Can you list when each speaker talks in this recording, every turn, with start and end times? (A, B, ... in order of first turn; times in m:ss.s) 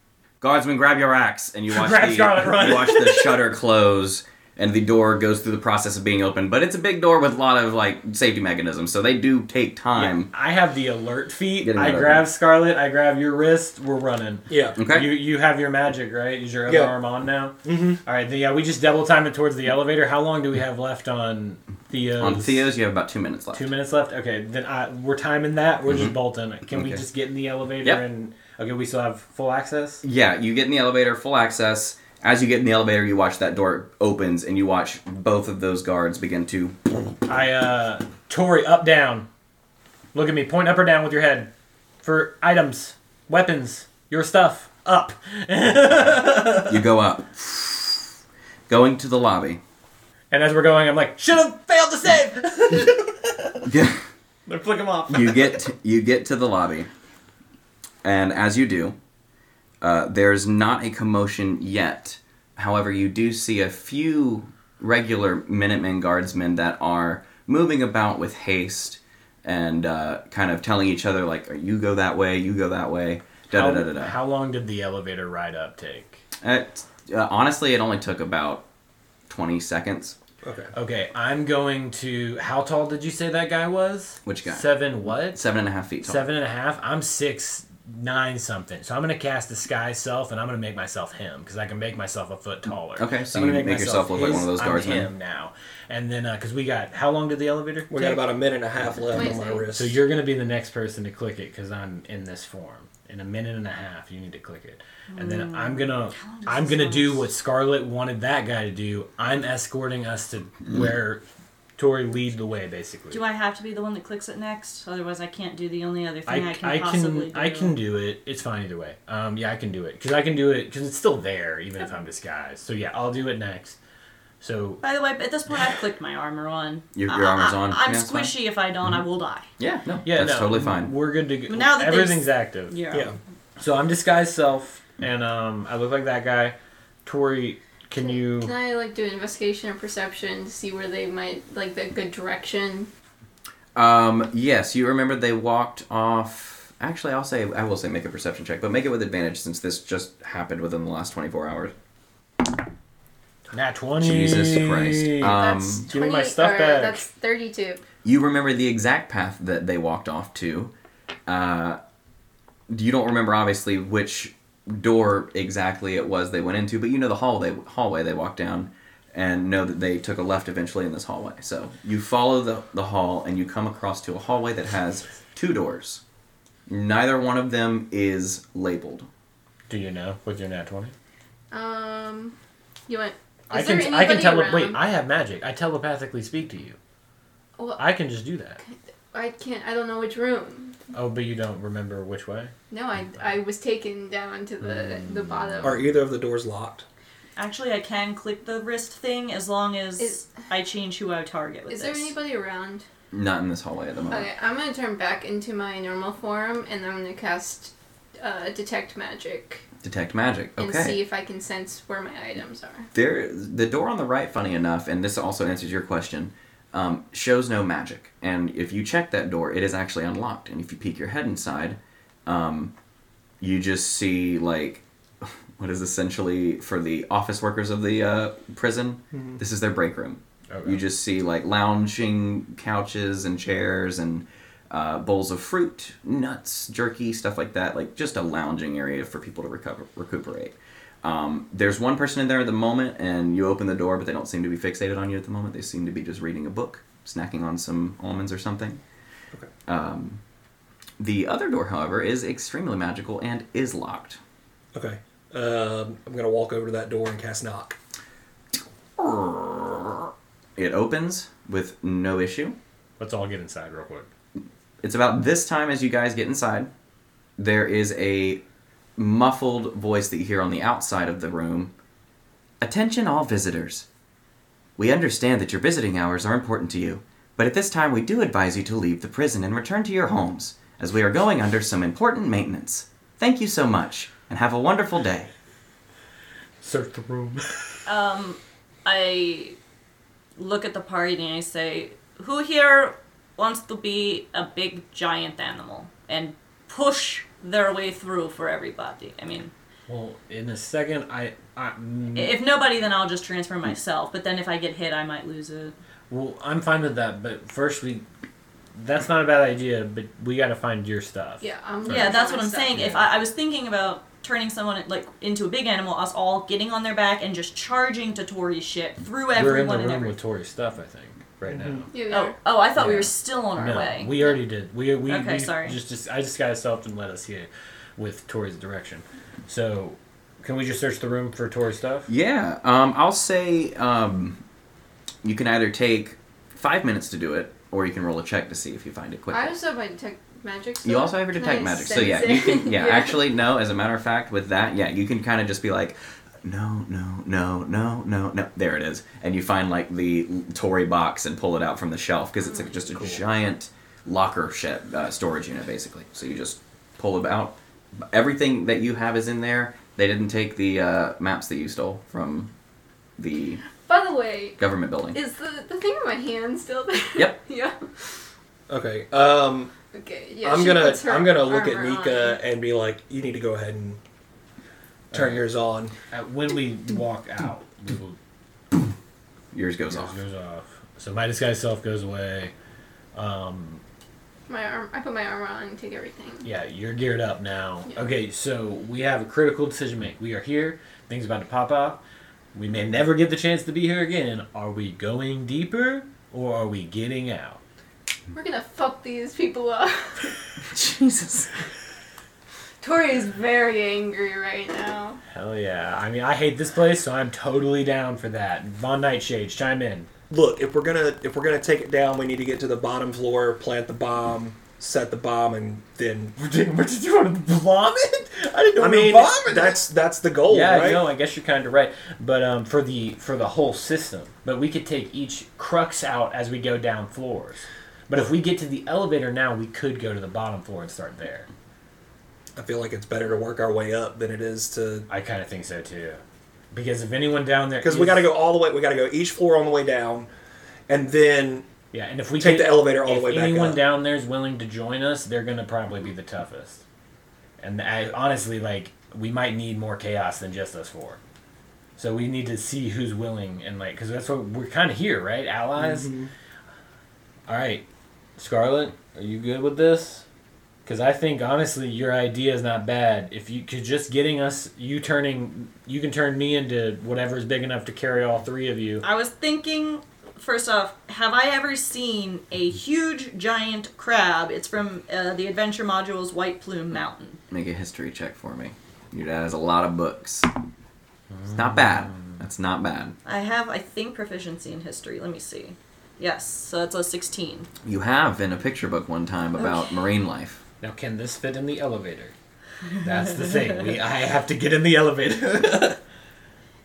0:00.4-0:10.3 A
0:01.7-0:03.4 B
0:09.9-0:22.7 B
0:11.6-0:12.2 A
0:14.5-0:14.8 C
0:14.8-0:15.1 A
0:16.7-0:16.9 C
0:17.6-0:18.0 C
0:22.2-0:23.7 A
0:23.5-0:30.0 B
0:25.9-0:26.2 A
0:26.7-0:27.0 A
0:30.0-0:37.0 A
0:37.3-0:39.3 B
0:40.1-0:41.5 B
0:42.0-0:46.8 B
0:46.6-0:48.1 A
0:48.7-0:49.6 A
0:50.3-0:53.7 B
0:53.6-0:54.0 A
0:54.5-0:55.6 B
0:55.1-0:56.9 A
0:58.0-0:59.0 A
0:59.8-1:14.2 A
1:13.5-1:16.2 B
1:16.4-1:18.6 A
1:19.3-1:20.2 A
1:20.4-1:20.7 C
1:20.7-1:25.4 B
1:24.2-1:26.3 A
1:26.0-1:38.3 B
1:33.0-1:35.1 A
1:37.9-1:40.0 C
1:39.1-1:39.7 D
1:39.7-1:51.2 B
1:45.1-1:47.2 E
1:51.8-1:53.2 B
1:53.1-1:57.8 E
1:56.3-2:03.8 B
2:04.4-2:04.8 B
2:04.8-2:09.5 E
2:06.9-2:08.3 A
2:09.6-2:10.9 A
2:10.0-2:12.7 B
2:11.5-2:13.1 E
2:13.6-2:18.5 B
2:18.0-2:22.9 D
2:23.7-2:31.7 A
2:33.5-2:37.0 B
2:34.0-2:35.9 A
2:35.2-2:37.8 D
2:38.0-2:40.7 A
2:41.3-2:41.8 A
2:42.7-2:56.0 A
2:56.7-2:59.1 A
2:59.7-3:00.9 B
3:01.5-3:02.4 D
3:02.9-3:04.8 D
3:03.5-3:06.8 B
3:07.8-3:08.6 B
3:08.6-3:10.7 D
3:10.9-3:12.5 B
3:12.7-3:15.9 D
3:15.6-3:16.8 C
3:17.4-3:22.1 E
3:21.7-3:22.8 D
3:23.1-3:24.3 A
3:24.1-3:29.6 D
3:29.8-3:31.0 A
3:30.6-3:32.9 D
3:32.9-3:42.7 A
3:43.4-4:08.8 A
3:50.5-3:50.8 B
4:09.7-4:10.2 A
4:11.0-4:14.2 A
4:14.7-4:17.8 C
4:19.0-4:22.6 A
4:23.0-4:24.1 B
4:24.8-4:26.7 A
4:27.4-4:28.4 A
4:29.0-4:31.7 A
4:32.6-4:33.8 A
4:34.8-4:45.3 A
4:46.6-4:47.8 B
4:47.8-4:49.6 E
4:50.4-4:59.5 E
4:59.9-5:02.4 B
5:02.2-5:05.7 E
5:06.1-5:08.0 B
5:08.7-5:12.2 B
5:11.4-5:12.9 D
5:11.9-5:20.2 E
5:12.7-5:13.0 B
5:19.3-5:21.9 B
5:21.5-5:21.8 C
5:21.9-5:22.3 D
5:22.1-5:24.4 E
5:22.8-5:32.1 B
5:25.1-5:25.8 E
5:32.1-5:34.4 A
5:35.2-5:39.5 A
5:39.3-5:43.2 D
5:40.8-6:02.5 A
6:03.2-6:03.6 A
6:03.8-6:04.6 D
6:04.6-6:05.2 A
6:05.1-6:07.8 D
6:08.7-6:09.7 C
6:09.9-6:12.4 D
6:10.4-6:14.0 C
6:15.1-6:15.4 B
6:15.1-6:15.9 C
6:16.1-6:18.2 B
6:19.5-6:20.2 A
6:19.9-6:22.5 B
6:23.1-6:23.8 B
6:24.5-6:26.5 D
6:26.4-6:32.0 B
6:32.5-6:37.6 B
6:38.3-6:40.3 D
6:40.6-6:41.5 A
6:42.8-6:45.2 D
6:45.3-6:50.1 B
6:50.3-6:56.4 C
6:56.4-6:59.8 B
6:58.8-7:01.1 C
7:00.5-7:11.5 B
7:12.6-7:15.1 C
7:15.1-7:16.2 B
7:16.7-7:18.3 B
7:17.8-7:20.3 C
7:20.9-7:21.6 C
7:21.9-7:26.8 B
7:22.4-7:23.8 C
7:27.6-7:31.2 B
7:32.0-7:36.1 B
7:35.8-7:36.3 C
7:37.5-7:37.8 B
7:38.4-7:40.2 B
7:40.8-7:49.0 B
7:49.0-7:57.4 E
7:57.5-8:00.5 A
8:01.5-8:03.2 A
8:03.2-8:07.7 E
8:07.8-8:10.6 A
8:09.6-8:10.0 E
8:10.8-8:12.3 B
8:13.0-8:16.0 B